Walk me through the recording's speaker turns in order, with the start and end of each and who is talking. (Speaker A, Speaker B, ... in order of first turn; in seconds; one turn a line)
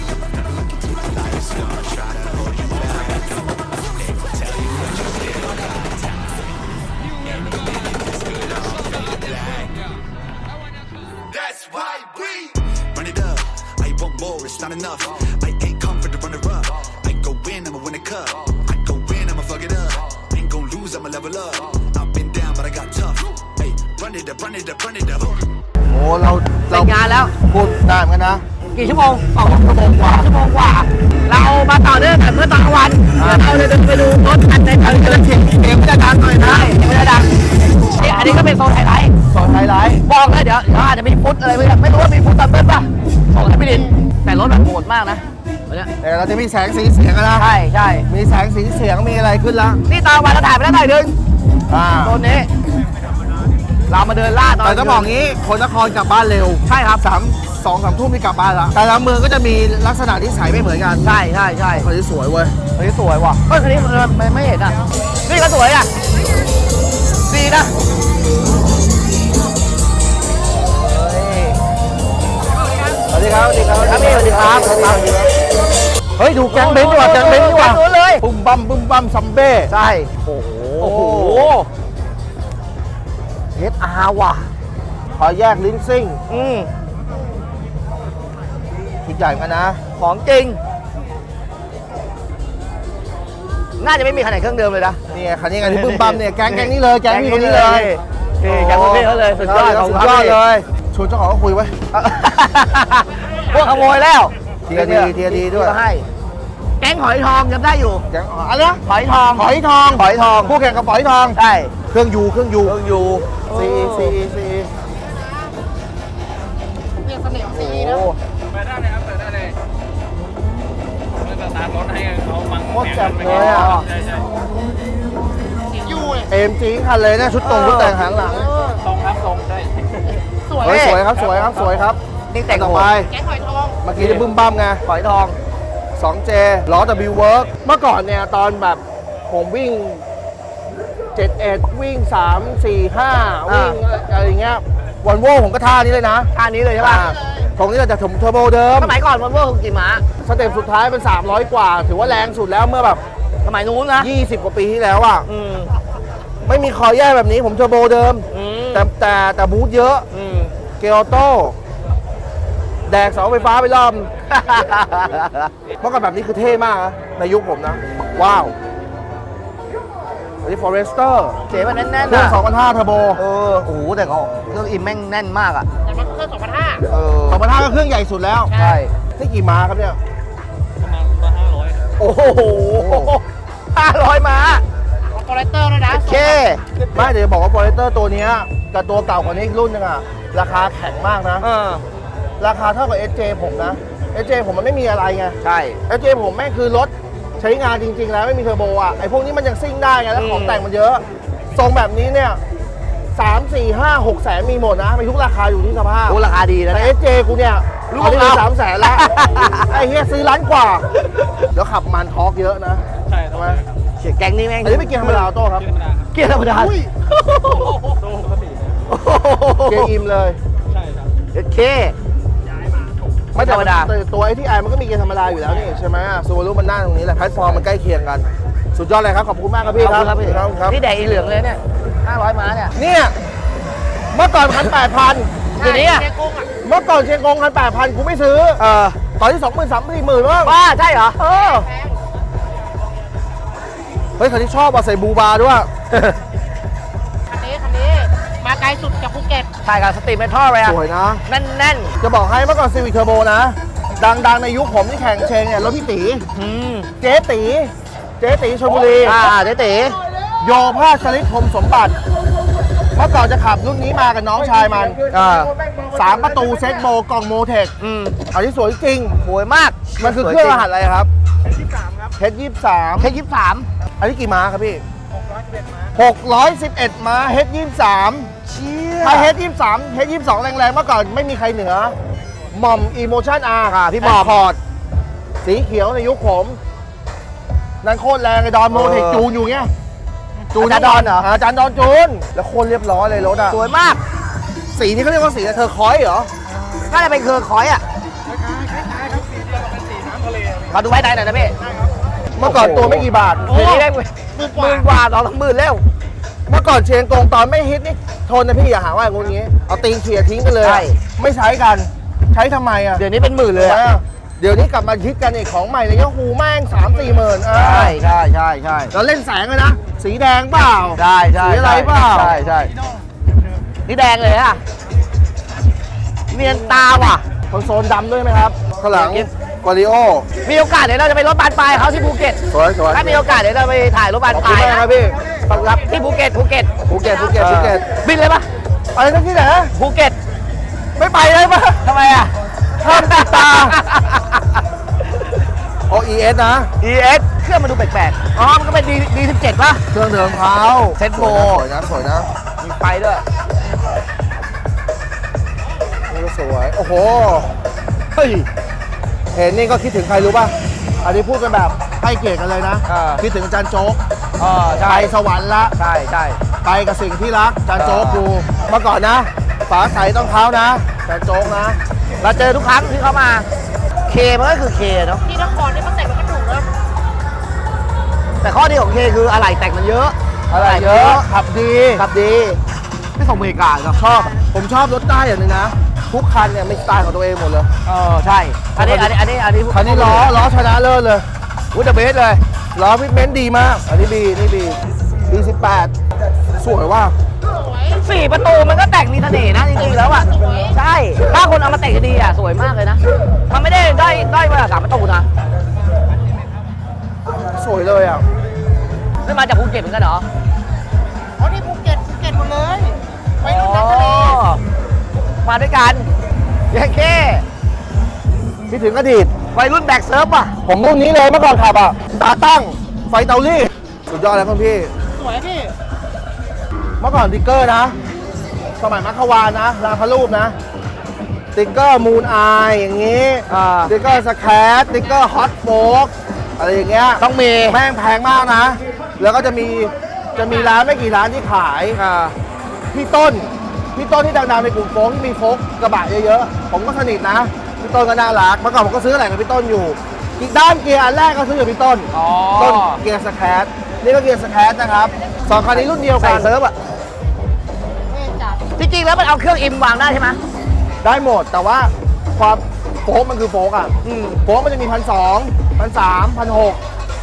Speaker A: 0.8-6.5
Speaker A: 7.1-10.0
Speaker A: 11.2-25.4
Speaker B: 25.9-28.4
Speaker C: 26.7-27.3
Speaker C: 28.7-39.2
Speaker B: 33.2-33.7
Speaker B: 38.0-38.4
Speaker B: 39.3-40.0
Speaker C: 40.0-45.9
Speaker B: 46.0-47.5
Speaker C: 47.4-48.1
Speaker B: 48.1-49.8
Speaker C: 49.9-51.2
Speaker B: 51.7-52.2
Speaker C: 52.0-52.5
Speaker C: 53.9-55.2
Speaker B: 54.6-61.1
Speaker C: 56.7-57.1
Speaker C: 61.0-61.9
Speaker B: 61.7-62.5
Speaker C: 62.8-65.9
Speaker C: 67.2-67.7
Speaker C: 70.6-71.6
Speaker D: 72.5-73.0
Speaker B: 73.1-75.3
Speaker C: 73.8-75.1
Speaker B: 76.2-79.7
Speaker C: 76.5-78.2
Speaker C: 79.7-81.7
Speaker B: 80.8-81.5
Speaker C: 83.5-84.5
Speaker B: 85.2-86.2
Speaker C: 86.3-86.7
Speaker B: 89.0-89.8
Speaker C: 90.0-90.6
Speaker C: 93.8-95.0
Speaker B: 95.1-101.8
Speaker C: 95.6-100.4
Speaker C: 101.9-106.1
Speaker D: 103.1-103.9
Speaker B: 104.7-105.8
Speaker C: 106.8-108.1
Speaker B: 108.1-108.8
Speaker C: 108.9-110.6
Speaker B: 109.3-111.4
Speaker C: 111.3-111.7
Speaker B: 111.9-112.8
Speaker C: 112.6-114.2
Speaker B: 113.5-114.7
Speaker D: 114.8-115.6
Speaker D: 117.0-118.1
Speaker C: 117.5-118.2
Speaker E: 118.5-119.6
Speaker E: 121.2-122.8
Speaker B: 122.7-123.8
Speaker C: 123.1-123.9
Speaker E: 123.5-124.2
Speaker D: 125.7-126.3
Speaker B: 126.3-128.5
Speaker C: 127.4-128.0
Speaker D: 128.1-128.9
Speaker E: 128.9-130.1
Speaker D: 130.4-131.0
Speaker C: 130.6-131.1
Speaker B: 130.6-133.1
Speaker C: 132.3-132.9
Speaker D: 133.0-133.8
Speaker B: 133.8-134.8
Speaker C: 134.0-134.3
Speaker C: 134.8-135.4
Speaker B: 136.0-140.1
Speaker B: 141.2-148.9
Speaker C: 143.4-143.8
Speaker C: 146.3-147.1
Speaker D: 146.8-147.5
Speaker C: 148.7-150.1
Speaker B: 150.2-153.0
Speaker C: 153.4-154.1
Speaker B: 154.0-155.3
Speaker C: 155.2-155.7
Speaker B: 156.4-160.1
Speaker C: 158.3-158.9
Speaker C: 160.1-160.5
Speaker B: 160.8-161.6
Speaker B: 162.9-164.1
Speaker C: 164.3-165.5
Speaker B: 165.8-168.6
Speaker B: 170.4-171.4
Speaker C: 171.5-172.4
Speaker B: 172.0-173.2
Speaker C: 173.2-175.7
Speaker D: 175.8-176.9
Speaker C: 176.9-177.5
Speaker B: 177.3-178.5
Speaker D: 178.5-178.8
Speaker C: 178.5-178.9
Speaker B: 179.2-180.0
Speaker E: 180.8-181.8
Speaker C: 182.0-184.6
Speaker B: 182.8-183.1
Speaker D: 185.1-186.5
Speaker C: 185.9-186.6
Speaker B: 186.9-191.5
Speaker C: 191.4-191.8
Speaker B: 192.4-202.4
Speaker C: 195.4-195.8
Speaker C: 200.1-200.7
Speaker B: 203.1-210.9
Speaker C: 206.1-206.9
Speaker C: 207.9-209.8
Speaker B: 211.5-213.6
Speaker C: 214.0-215.3
Speaker B: 214.6-215.7
Speaker E: 215.7-216.0
Speaker C: 216.1-217.8
Speaker D: 216.5-218.0
Speaker E: 218.1-218.8
Speaker C: 218.9-219.9
Speaker B: 219.6-220.4
Speaker E: 220.7-221.1
Speaker C: 221.3-222.0
Speaker B: 223.3-230.8
Speaker C: 223.4-223.9
Speaker C: 229.7-232.7
Speaker B: 232.8-233.2
Speaker B: 234.1-235.4
Speaker D: 235.6-236.5
Speaker C: 235.6-236.1
Speaker B: 236.6-238.6
Speaker C: 238.6-239.0
Speaker B: 239.1-240.6
Speaker C: 240.4-241.7
Speaker D: 241.2-242.0
Speaker B: 244.2-245.7
Speaker C: 245.9-246.2
Speaker D: 247.3-249.5
Speaker C: 249.6-252.0
Speaker B: 250.6-251.2
Speaker B: 252.0-256.3
Speaker C: 256.3-256.9
Speaker B: 257.0-259.2
Speaker C: 259.0-260.0
Speaker B: 260.4-262.0
Speaker B: 262.9-265.0
Speaker C: 265.1-265.5
Speaker B: 265.9-267.8
Speaker C: 267.8-268.2
Speaker B: 268.3-269.2
Speaker C: 269.2-270.7
Speaker B: 270.0-271.1
Speaker D: 271.6-272.1
Speaker B: 272.2-273.1
Speaker C: 273.0-273.7
Speaker B: 274.0-274.8
Speaker D: 275.1-275.9
Speaker B: 275.9-278.3
Speaker C: 278.4-279.4
Speaker B: 279.0-282.0
Speaker B: 282.5-284.6
Speaker C: 283.7-284.4
Speaker B: 285.4-286.6
Speaker B: 287.8-289.7
Speaker C: 288.7-289.3
Speaker B: 290.5-293.6
Speaker C: 290.6-291.3
Speaker C: 293.5-294.0
Speaker B: 294.7-296.3
Speaker C: 296.5-297.8
Speaker D: 298.3-300.6
Speaker C: 300.7-301.6
Speaker D: 301.6-302.0
Speaker B: 302.3-303.5
Speaker C: 302.4-305.9
Speaker D: 303.5-304.9
Speaker B: 306.5-318.0
Speaker C: 310.6-311.0
Speaker C: 312.9-313.8
Speaker C: 317.5-318.9
Speaker B: 318.9-322.4
Speaker C: 320.9-322.7
Speaker C: 323.9-324.6
Speaker C: 326.3-327.3
Speaker B: 327.5-330.3
Speaker C: 328.9-329.3
Speaker C: 330.4-332.4
Speaker B: 332.5-333.3
Speaker C: 332.9-334.8
Speaker B: 334.3-335.8
Speaker D: 334.8-335.4
Speaker C: 335.5-336.8
Speaker B: 336.9-337.9
Speaker D: 336.9-337.3
Speaker C: 337.4-338.5
Speaker B: 338.9-339.7
Speaker C: 339.7-340.2
Speaker B: 341.0-341.8
Speaker C: 341.8-344.6
Speaker B: 342.8-343.8
Speaker B: 345.9-346.7
Speaker C: 346.8-349.8
Speaker B: 349.9-352.3
Speaker C: 351.0-351.6
Speaker C: 352.6-353.2
Speaker B: 356.1-357.5
Speaker C: 358.1-358.5
Speaker B: 359.3-364.0
Speaker C: 362.9-363.2
Speaker C: 364.4-365.2
Speaker B: 364.8-365.8
Speaker C: 365.8-366.4
Speaker B: 366.6-371.8
Speaker C: 367.7-368.3
Speaker C: 372.2-373.5
Speaker C: 374.1-375.2
Speaker D: 375.2-376.7
Speaker C: 378.4-381.3
Speaker B: 380.5-382.1
Speaker C: 382.0-382.6
Speaker C: 383.2-384.3
Speaker B: 384.0-387.7
Speaker C: 387.9-390.3
Speaker B: 388.8-389.1
Speaker B: 389.7-391.3
Speaker C: 391.7-392.4
Speaker B: 392.7-395.9
Speaker B: 396.6-397.2
Speaker D: 397.4-398.1
Speaker C: 398.0-405.3
Speaker D: 400.0-400.8
Speaker B: 407.4-408.2
Speaker C: 409.2-410.3
Speaker D: 411.4-414.4
Speaker C: 413.4-414.6
Speaker C: 415.4-416.1
Speaker C: 416.7-417.4
Speaker B: 418.7-419.3
Speaker C: 419.5-420.6
Speaker B: 420.6-424.9
Speaker D: 425.1-425.8
Speaker B: 427.0-428.0
Speaker B: 428.8-430.6
Speaker B: 431.6-442.0
Speaker C: 433.5-433.9
Speaker C: 437.2-437.8
Speaker C: 441.9-442.4
Speaker B: 442.9-456.5
Speaker C: 452.1-453.0
Speaker C: 455.7-456.8
Speaker D: 458.1-458.6
Speaker C: 458.8-460.4
Speaker B: 461.0-466.8
Speaker C: 464.0-464.4